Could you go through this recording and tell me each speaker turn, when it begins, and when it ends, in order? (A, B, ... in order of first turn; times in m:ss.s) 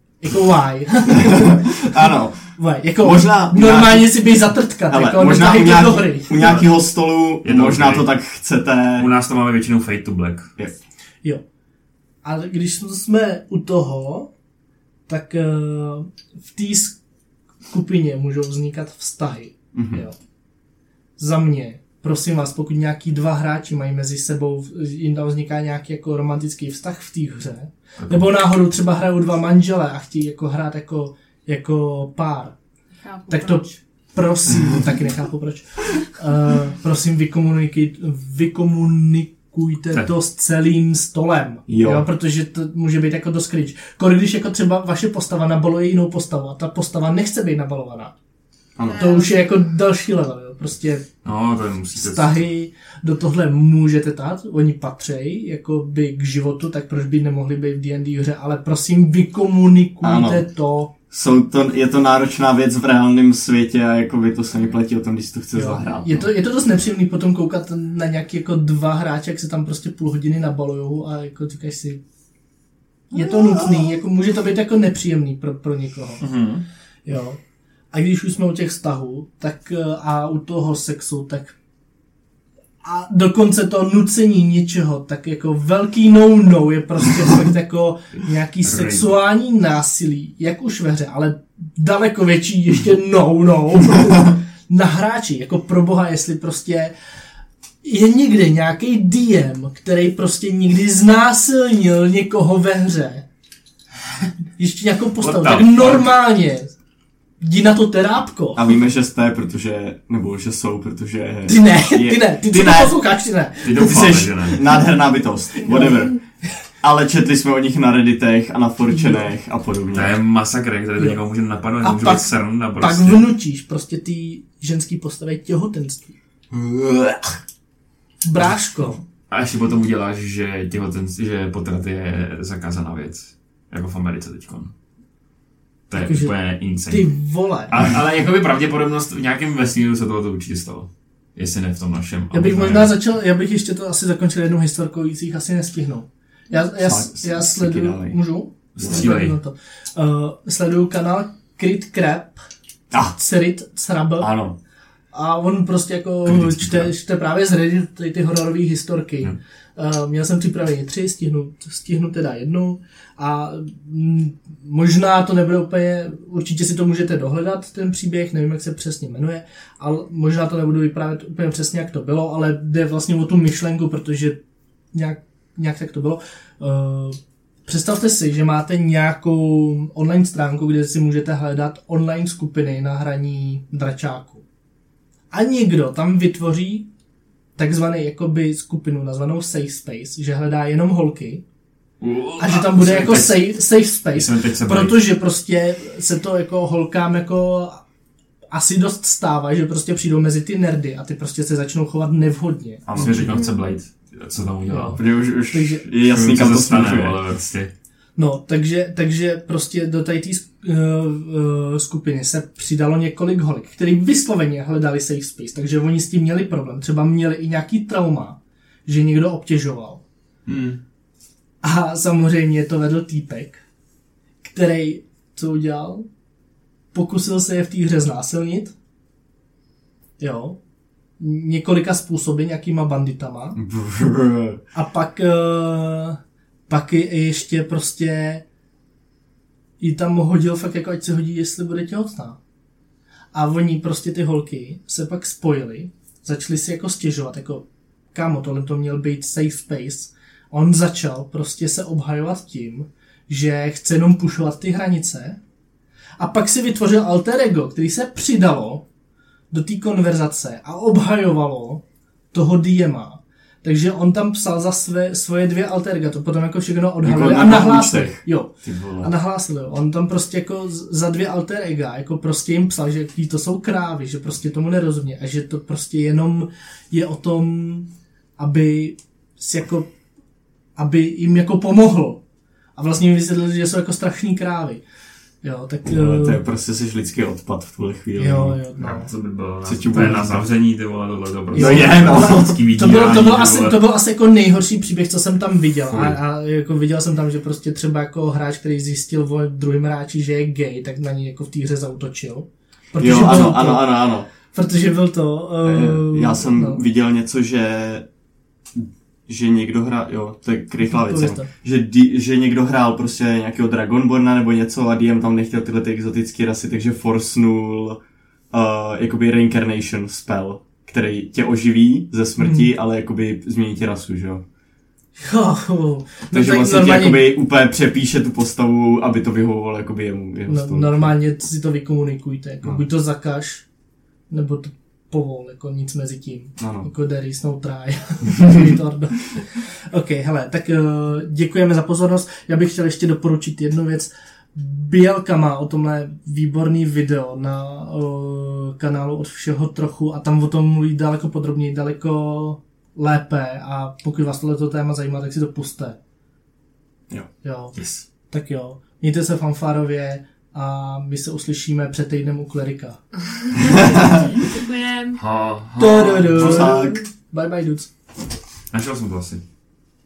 0:00.2-0:02.0 A
0:01.1-0:04.2 B
0:02.5-0:06.6 A
0:04.9-0:09.1 B
0:06.4-0:06.6 C
0:07.4-0:08.1 C
0:09.0-0:10.5 C
0:12.2-0:14.3 A
0:15.1-0:17.0 A
0:17.7-0:20.2 A
0:19.7-0:20.0 B
0:21.2-0:32.5 A
0:28.0-0:28.3 C
0:33.0-0:33.8 D
0:33.3-0:48.1 A
0:41.7-0:42.1 B
0:48.8-0:49.1 B
0:48.8-0:49.6 D
0:48.9-0:51.1 A
0:51.2-0:52.4 C
0:52.0-1:00.9 A
1:00.0-1:00.4 B
1:01.1-1:06.2 B
1:05.5-1:12.0 A
1:13.1-1:16.2 A
1:16.2-1:16.6 C
1:17.0-1:17.4 A
1:17.9-1:21.6 A
1:22.8-1:36.9 A
1:28.6-1:29.1 C
1:37.8-1:43.2 A
1:44.6-1:46.7 A
1:45.2-1:46.1 C
1:47.4-1:48.6 A
1:48.5-1:53.0 B
1:51.5-1:53.9 A
1:53.6-1:54.6 C
1:53.8-1:56.2 B
1:55.6-1:56.1 A
1:56.8-2:00.1 B
1:58.9-1:59.2 A
1:59.9-2:03.3 C
2:01.8-2:06.1 A
2:06.5-2:07.2 B
2:08.2-2:09.0 A
2:09.3-2:14.7 C
2:15.9-2:17.1 C
2:15.9-2:16.3 A
2:16.8-2:17.9 A
2:17.7-2:23.0 C
2:22.3-2:32.4 A
2:26.8-2:28.2 B
2:28.8-2:29.4 C
2:32.9-2:33.2 B
2:33.0-2:34.3 A
2:34.2-2:34.6 B
2:35.1-2:54.4 A
2:36.2-2:36.9 C
2:54.9-3:04.4 A
3:05.3-3:06.9 A
3:07.6-3:11.4 A
3:12.0-3:15.0 C
3:12.4-3:17.8 A
3:18.5-3:23.4 A
3:22.8-3:25.0 C
3:23.0-3:23.2 B
3:23.3-3:23.6 D
3:24.7-3:25.8 A
3:25.0-3:27.2 B
3:26.0-3:27.7 C
3:28.2-3:40.0 A
3:40.5-3:40.8 B
3:41.6-3:43.6 A
3:44.4-3:46.0 A
3:46.9-3:48.7 A
3:50.2-3:50.6 A
3:51.2-3:53.6 A
3:53.6-3:54.6 B
3:54.7-3:58.4 A
3:59.8-4:02.4 A
4:03.3-4:15.4 A
4:16.2-4:18.8 A
4:19.5-4:39.9 A
4:27.0-4:29.1 B
4:40.8-4:42.2 A
4:42.8-4:44.8 A
4:45.4-4:46.4 A
4:45.8-4:48.6 B
4:48.2-4:49.1 A
4:48.8-4:53.8 C
4:49.6-4:50.4 B
4:51.5-5:06.8 A
4:51.5-4:52.5 B
5:03.0-5:04.3 B
5:05.6-5:08.0 B
5:08.7-5:18.0 B
5:10.8-5:11.5 A
5:18.5-5:24.4 B
5:22.4-5:22.7 A
5:25.2-5:27.3 A
5:26.3-5:31.1 B
5:30.5-5:33.6 A
5:34.3-5:56.0 A
5:36.6-5:36.9 B
5:57.4-5:57.7 A
5:57.8-5:58.0 C
5:58.3-6:03.0 A
6:03.4-6:05.2 D
6:05.2-6:06.8 C
6:05.8-6:07.9 A
6:06.3-6:07.0 B
6:08.7-6:09.4 C